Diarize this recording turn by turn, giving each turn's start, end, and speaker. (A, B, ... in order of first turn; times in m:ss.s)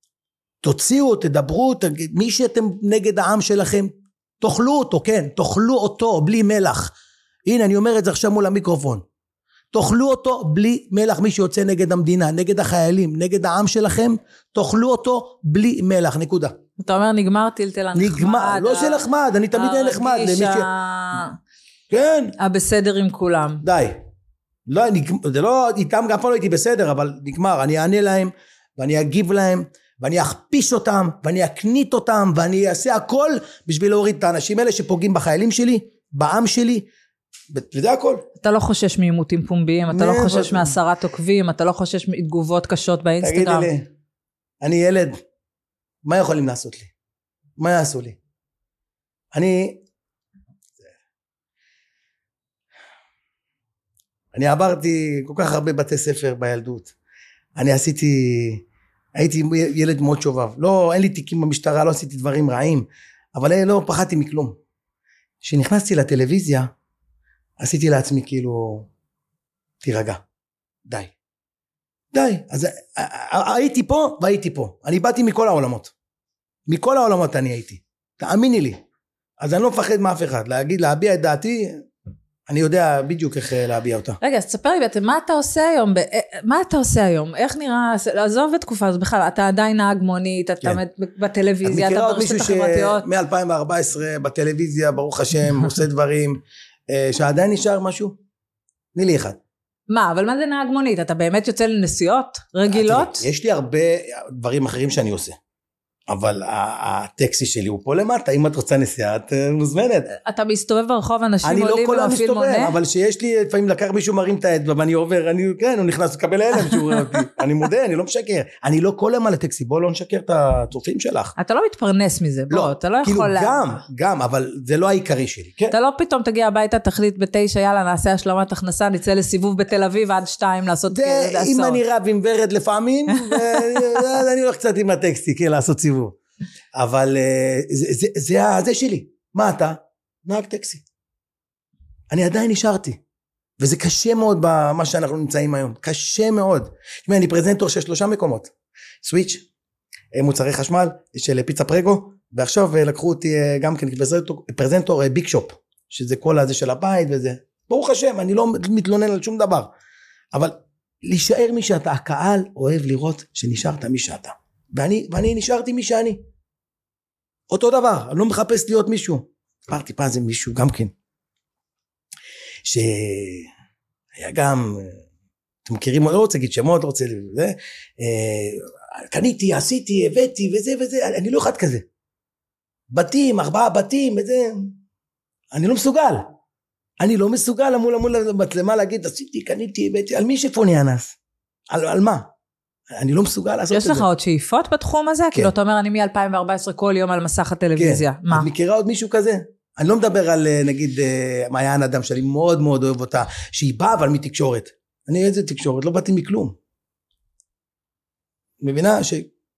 0:00.6-0:06.9 A
0:07.4-0:09.0 A
0:09.7-0:16.6 A
0:16.8-0:21.4 B
0:17.9-0:20.7 A
0:21.9-0:22.3 A
0:22.4-0:23.6 B
0:23.6-0:24.0 A
0:24.7-0:36.9 A
0:37.5-0:38.2 A
0:38.4-0:43.7 B
0:39.9-0:40.8 A
0:43.2-0:43.9 A
0:44.6-0:45.2 A
0:46.0-0:46.9 A
0:47.6-0:48.2 A
0:49.3-0:49.8 A
0:54.3-0:56.9 A
0:57.6-0:58.6 A
0:59.2-1:04.6 A
1:05.4-1:06.7 A
1:07.6-1:08.9 A
1:09.8-1:10.2 A
1:10.8-1:11.1 A
1:12.1-1:15.9 A
1:16.7-1:18.8 A
1:19.4-1:21.8 A
1:22.5-1:24.2 A
1:24.2-1:33.1 B
1:31.6-1:38.2 A
1:38.9-1:39.4 A
1:39.9-1:43.2 B
1:42.7-1:45.4 A
1:46.1-1:50.1 A
1:50.2-1:52.8 B
1:51.4-2:01.3 A
2:01.4-2:03.8 B
2:02.5-2:05.7 A
2:05.7-2:11.8 B
2:10.9-2:16.2 A
2:13.1-2:13.8 B
2:16.7-2:20.8 A
2:22.1-2:23.0 A
2:23.6-2:28.5 A
2:29.0-2:29.4 A
2:30.1-2:39.7 A
2:40.3-2:46.2 A
2:47.5-2:50.9 A
2:52.6-2:53.5 A
2:54.1-2:55.0 A
2:55.6-3:01.8 A
3:02.9-3:04.8 A
3:05.5-3:06.3 A
3:07.0-3:11.2 A
3:11.7-3:12.3 A
3:12.9-3:14.0 A
3:13.7-3:18.5 B
3:17.8-3:26.6 A
3:28.6-3:29.3 A